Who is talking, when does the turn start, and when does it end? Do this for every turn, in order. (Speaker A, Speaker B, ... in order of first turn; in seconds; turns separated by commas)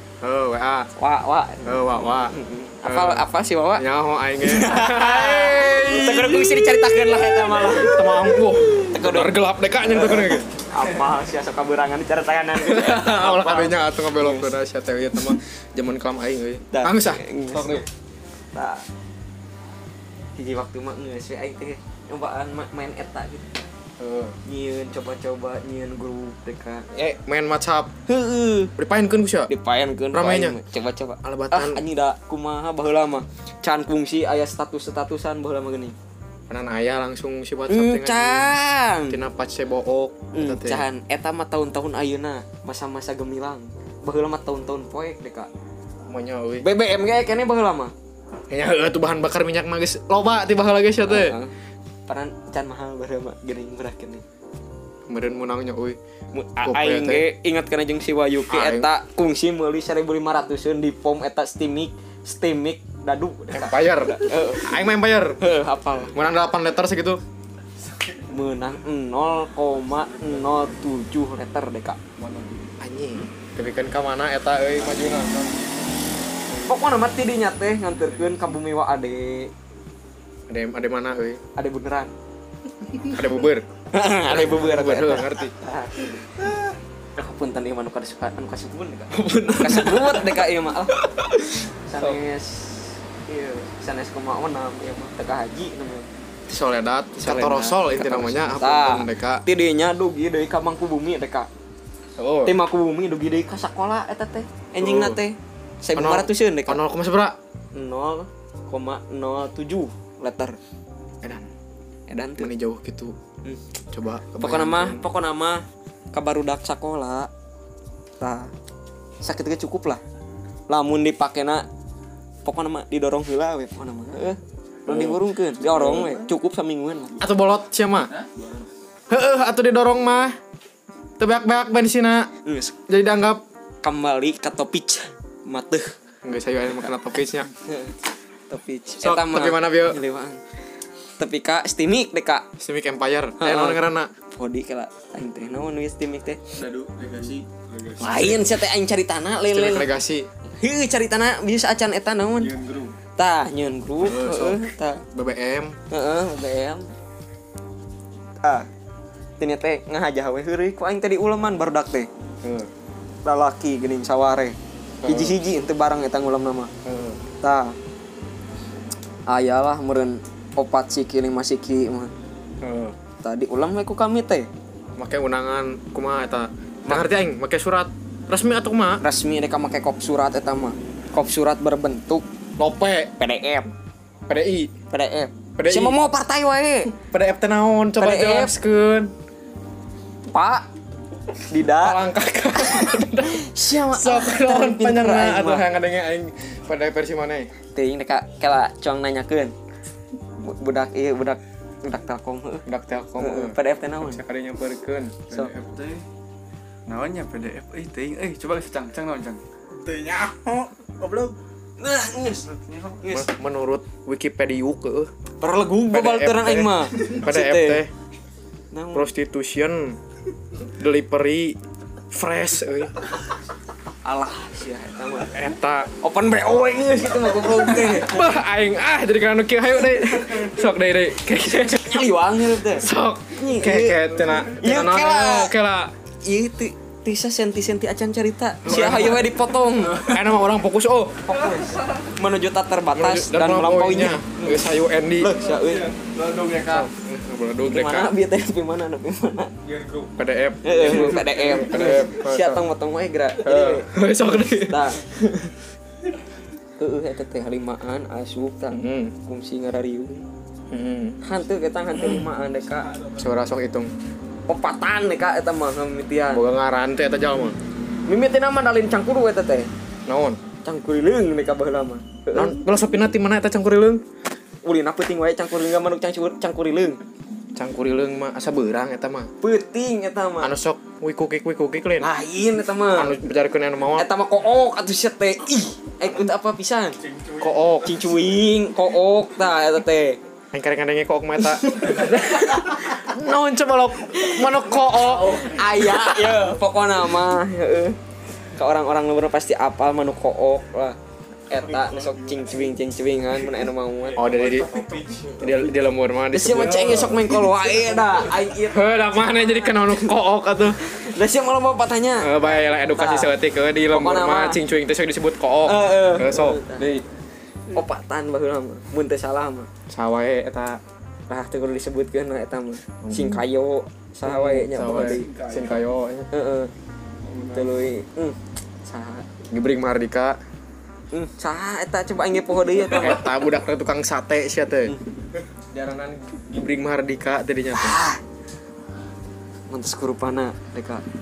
Speaker A: 0.2-0.9, Speaker B: 0.9-1.6, Speaker A: 1.6-10.4, Speaker B: 2.3-3.9, Speaker B: 4.4-9.3, Speaker B: 9.9-14.5, Speaker A: 12.5-17.9, Speaker B: 16.7-17.8, Speaker B: 18.5-18.8, Speaker B: 20.4-23.6, Speaker A: 24.0-24.4, Speaker B: 24.4-26.9, Speaker A: 26.9-27.9, Speaker B: 28.1-28.7, Speaker A: 28.8-29.5, Speaker B: 29.5-36.0, Speaker A: 30.1-30.6, Speaker A: 31.2-31.8, Speaker A: 36.5-38.6, Speaker B: 37.7-39.2, Speaker A: 39.1-40.9, Speaker B: 40.3-45.5, Speaker A: 46.1-46.6, Speaker B: 46.6-47.9, Speaker A: 48.5-51.4, Speaker B: 51.0-51.5, Speaker B: 52.1-54.2, Speaker A: 55.1-56.0, Speaker B: 56.3-64.7, Speaker A: 56.6-57.2, Speaker A: 58.5-58.9, Speaker A: 63.5-65.4, Speaker B: 65.4-66.1, Speaker A: 66.1-67.2, Speaker B: 68.3-72.0, Speaker C: 72.2-72.7, Speaker A: 72.8-75.3, Speaker C: 75.1-75.5, Speaker B: 76.7-79.5, Speaker A: 80.5-81.4, Speaker B: 81.5-82.1, Speaker A: 83.0-83.7, Speaker B: 83.9-86.2, Speaker A: 84.2-85.5, Speaker B: 87.2-96.1, Speaker A: 89.1-90.5, Speaker A: 91.0-92.2, Speaker A: 96.5-99.4, Speaker B: 97.2-101.5, Speaker A: 102.2-102.5, Speaker B: 102.4-106.8, Speaker A: 104.8-105.2, Speaker A: 106.0-107.3, Speaker B: 107.7-110.6, Speaker B: 112.1-112.5, Speaker A: 112.4-113.1, Speaker A: 113.9-115.0, Speaker B: 114.4-117.3, Speaker B: 118.2-118.5, Speaker B: 119.2-120.0, Speaker B: 120.7-121.7, Speaker B: 122.4-127.2, Speaker A: 124.9-126.2, Speaker A: 127.2-128.1, Speaker A: 129.1-130.3, Speaker A: 131.2-132.3, Speaker B: 132.4-132.7, Speaker A: 132.9-133.4, Speaker B: 133.8-135.9, Speaker A: 136.2-137.5, Speaker B: 137.6-137.9, Speaker B: 138.5-140.4, Speaker A: 139.0-140.0, Speaker B: 141.2-142.5, Speaker A: 142.6-144.1, Speaker B: 143.4-143.8, Speaker B: 144.3-146.4, Speaker C: 146.5-148.3, Speaker B: 148.0-149.9, Speaker A: 148.0-148.4, Speaker A: 149.5-150.3, Speaker B: 150.6-152.5, Speaker C: 152.4-152.9, Speaker B: 153.2-155.0, Speaker A: 154.0-155.7, Speaker B: 155.9-156.8, Speaker B: 158.4-158.7, Speaker B: 159.4-162.1, Speaker A: 162.4-162.7, Speaker B: 163.2-166.7, Speaker A: 165.0-165.4, Speaker A: 166.8-167.2, Speaker B: 167.4-167.8, Speaker B: 169.3-172.1, Speaker A: 172.6-172.9, Speaker B: 173.2-174.5, Speaker A: 175.0-179.0, Speaker B: 179.0-182.2, Speaker A: 182.6-183.1, Speaker B: 183.2-183.7, Speaker A: 184.3-184.7, Speaker B: 184.9-186.9, Speaker A: 185.6-186.0, Speaker A: 187.0-189.1, Speaker B: 188.0-188.5, Speaker B: 190.3-190.7, Speaker B: 191.5-192.0, Speaker A: 191.8-197.5, Speaker B: 192.6-195.7, Speaker B: 197.7-199.5, Speaker B: 200.4-202.6, Speaker A: 202.7-205.7, Speaker B: 203.2-204.2, Speaker C: 205.6-206.0, Speaker C: 206.9-211.3, Speaker B: 211.8-212.5, Speaker C: 212.4-213.0, Speaker B: 213.0-213.3, Speaker A: 213.1-215.1, Speaker B: 215.4-217.8, Speaker A: 215.9-217.9, Speaker B: 218.7-219.1, Speaker A: 218.9-220.0, Speaker A: 220.7-221.6, Speaker A: 222.1-222.9, Speaker B: 224.0-225.3, Speaker A: 225.3-225.9, Speaker B: 226.0-228.2, Speaker A: 228.0-232.1, Speaker B: 231.4-234.0, Speaker A: 232.7-235.9, Speaker B: 234.5-235.5, Speaker B: 236.2-240.1, Speaker A: 238.6-239.3, Speaker C: 239.9-240.2, Speaker A: 240.0-241.3, Speaker B: 241.2-245.9, Speaker A: 242.9-245.3, Speaker C: 245.4-246.9, Speaker A: 246.7-248.1, Speaker B: 247.6-249.5, Speaker C: 249.6-250.1, Speaker A: 250.2-252.6, Speaker B: 250.6-253.9, Speaker C: 250.7-252.1, Speaker A: 253.4-255.5, Speaker B: 254.4-255.4, Speaker B: 256.8-260.2, Speaker A: 258.7-259.1, Speaker A: 260.7-261.2, Speaker B: 261.2-263.0, Speaker A: 263.1-263.9, Speaker B: 264.5-266.4, Speaker A: 266.3-267.6, Speaker B: 268.1-269.7, Speaker A: 270.1-270.4, Speaker B: 270.6-272.6, Speaker A: 272.3-274.0, Speaker B: 274.6-277.0, Speaker A: 277.5-279.3, Speaker B: 279.4-280.5, Speaker A: 280.4-282.1, Speaker B: 282.0-283.1, Speaker A: 282.9-284.1, Speaker B: 283.9-287.0, Speaker C: 287.1-287.4, Speaker A: 287.4-288.0, Speaker B: 287.8-290.2, Speaker A: 290.5-296.4, Speaker B: 291.7-292.9, Speaker B: 294.1-298.0, Speaker B: 298.6-301.0, Speaker B: 301.5-304.4, Speaker C: 304.1-305.4, Speaker A: 304.1-304.7, Speaker A: 305.4-307.2, Speaker B: 306.3-310.1, Speaker C: 306.8-308.4, Speaker A: 308.7-310.8, Speaker B: 310.8-313.3, Speaker A: 312.2-317.0, Speaker B: 313.9-314.6, Speaker B: 315.6-316.9, Speaker B: 317.7-319.7, Speaker A: 319.9-320.8, Speaker B: 321.3-325.3, Speaker A: 323.0-323.4, Speaker A: 324.2-326.3, Speaker C: 324.8-325.8, Speaker B: 326.3-326.7, Speaker C: 327.2-327.7, Speaker B: 327.5-329.3, Speaker A: 329.5-330.4, Speaker B: 331.1-333.2, Speaker A: 332.9-334.9, Speaker A: 335.7-338.0, Speaker B: 337.7-338.2, Speaker B: 339.7-341.0